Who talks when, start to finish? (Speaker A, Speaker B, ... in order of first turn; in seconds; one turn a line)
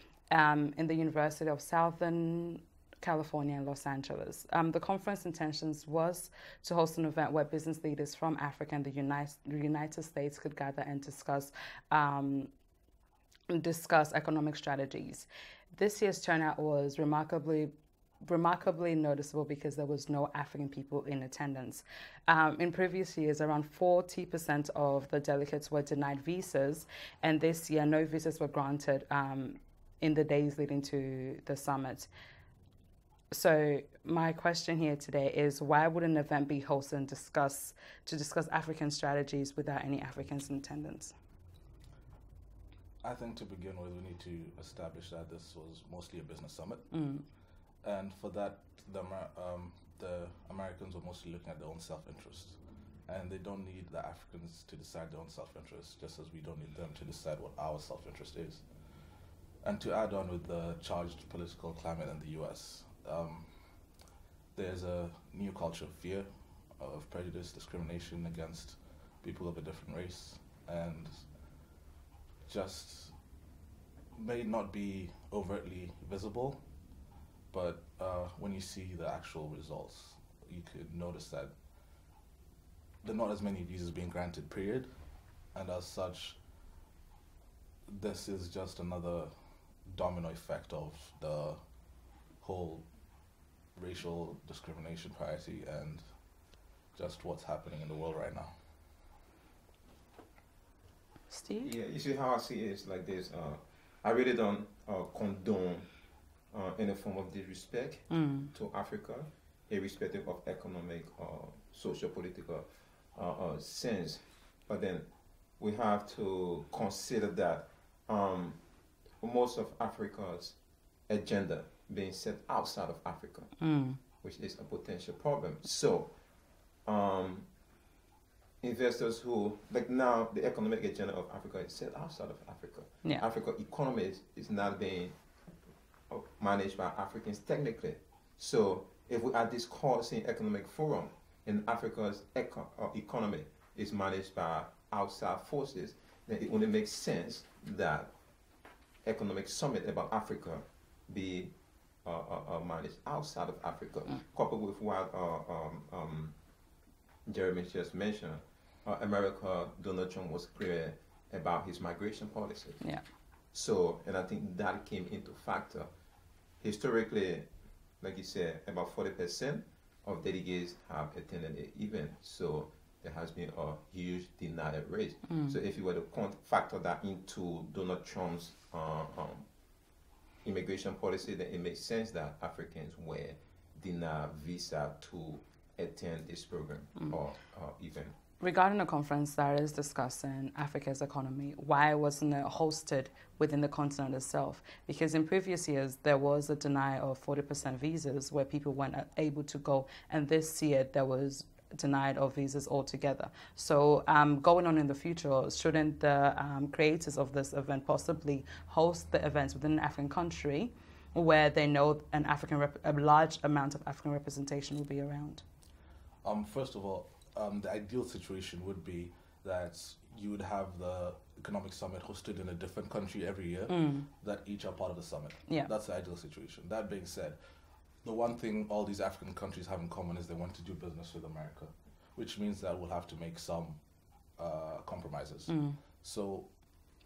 Speaker A: 0.3-12.5
Speaker A: 13.5-17.7
Speaker A: 18.2-32.1
Speaker A: 33.3-41.1
Speaker B: 43.0-46.8
Speaker A: 46.9-47.2
Speaker B: 47.8-58.6
Speaker B: 59.6-63.5
Speaker B: 64.5-71.2
Speaker B: 72.5-73.1
Speaker B: 74.1-76.6
Speaker B: 77.5-81.5
Speaker B: 83.0-84.9
Speaker B: 85.5-86.4
Speaker B: 87.9-89.3
Speaker B: 89.9-91.6
Speaker B: 92.4-92.9
Speaker B: 93.8-96.0
Speaker B: 96.9-98.5
Speaker A: 101.3-101.8
Speaker C: 101.6-105.9
Speaker C: 106.5-115.1
Speaker A: 108.1-108.5
Speaker C: 115.6-118.6
Speaker C: 119.2-120.6
Speaker C: 121.1-123.5
Speaker A: 123.6-124.0
Speaker C: 124.2-126.1
Speaker C: 126.9-127.5
Speaker C: 128.6-135.2
Speaker C: 136.1-148.1
Speaker C: 149.0-151.5
Speaker C: 152.1-156.3
Speaker C: 157.3-162.8
Speaker C: 163.5-165.9
Speaker C: 166.6-167.5
Speaker C: 168.0-179.5
Speaker A: 175.3-175.6
Speaker C: 180.4-188.1
Speaker A: 188.4-215.4
Speaker B: 216.2-227.4
Speaker A: 223.7-224.1
Speaker B: 228.0-233.8
Speaker B: 234.4-236.5
Speaker A: 235.5-235.8